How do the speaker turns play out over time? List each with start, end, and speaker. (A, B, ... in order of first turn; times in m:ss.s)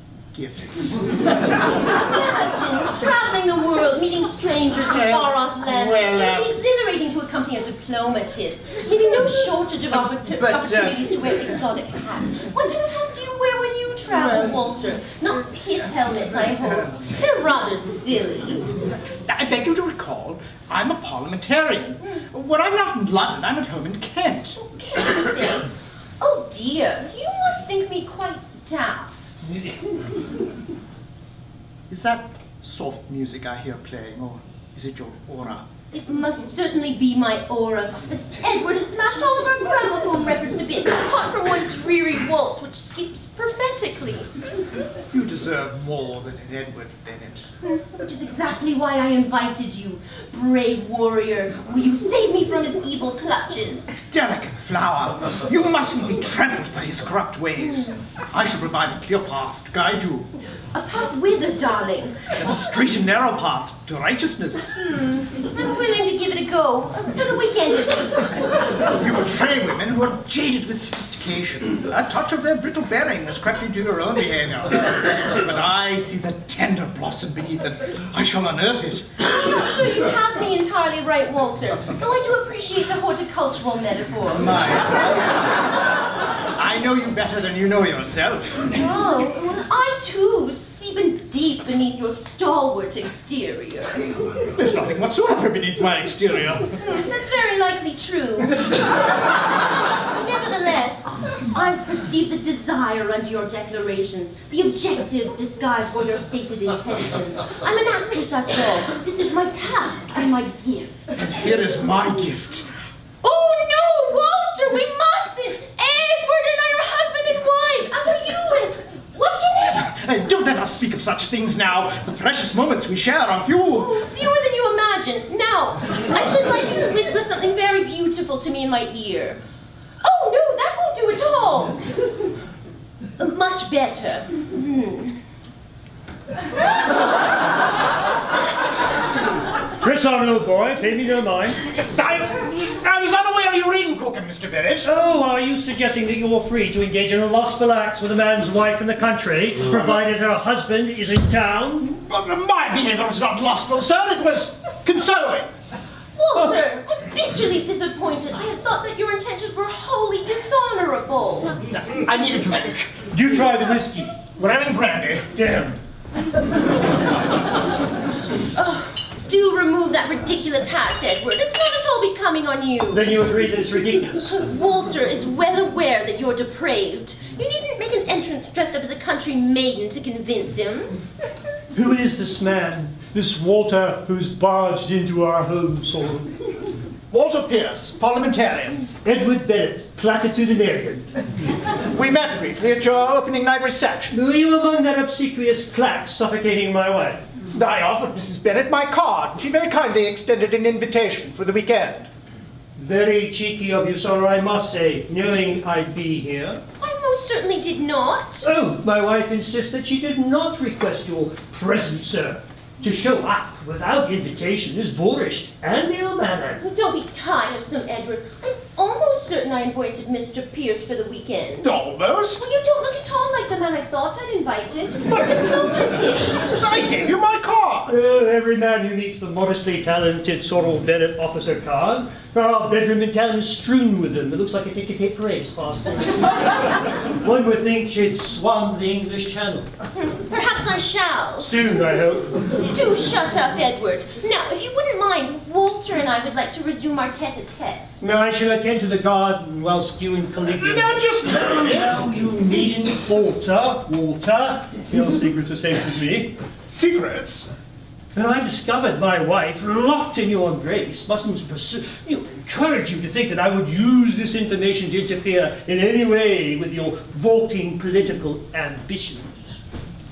0:00.3-0:01.2 A
0:01.8-0:18.7 B
0:04.9-0:06.6 A
0:09.9-0:11.0 A
0:19.3-0:24.6 A
0:24.6-0:29.3 B
0:31.9-0:35.7 A
0:35.9-0:44.3 B
0:45.1-0:47.5 A
0:47.6-0:53.9 B
0:54.0-1:00.3 A
0:57.6-0:57.9 B
1:00.7-1:02.4 B
1:02.3-1:04.7 A
1:04.8-1:08.4 B
1:08.9-1:19.2 A
1:19.2-1:24.8 B
1:24.3-1:25.5 A
1:26.5-1:28.7 A
1:28.7-1:34.0 B
1:34.6-1:36.8 A
1:36.8-1:51.8 B
1:51.2-1:52.7 A
1:53.2-1:59.9 B
1:59.6-2:04.0 A
2:03.8-2:09.4 B
2:10.0-2:11.8 B
2:13.2-2:15.2 B
2:19.8-2:21.6 C
2:21.8-2:24.9 A
2:24.8-2:31.9 C
2:31.8-2:35.5 A
2:36.2-2:41.6 B
2:41.7-2:43.1 A
2:43.1-2:44.1 C
2:44.2-2:45.3 A
2:45.3-2:45.8 C
2:48.6-2:53.1 B
2:52.9-2:54.4 C
2:54.3-3:01.0 B
3:01.7-3:06.4 C
3:07.1-3:08.9 A
3:09.0-3:11.1 C
3:11.9-3:14.1 A
3:14.1-3:17.2 C
3:17.5-3:22.1 A
3:22.8-3:26.6 C
3:26.8-3:28.5 B
3:28.4-3:36.6 C
3:36.6-3:41.7 B
3:41.6-3:42.4 A
3:42.4-3:46.7 B
3:46.4-3:48.0 A
3:47.9-3:59.7 C
4:00.0-4:01.6 B
4:01.4-4:02.6 C
4:02.5-4:08.0 B
4:08.0-4:16.4 C
4:10.5-4:12.3 A
4:16.7-4:17.5 A
4:18.1-4:29.6 C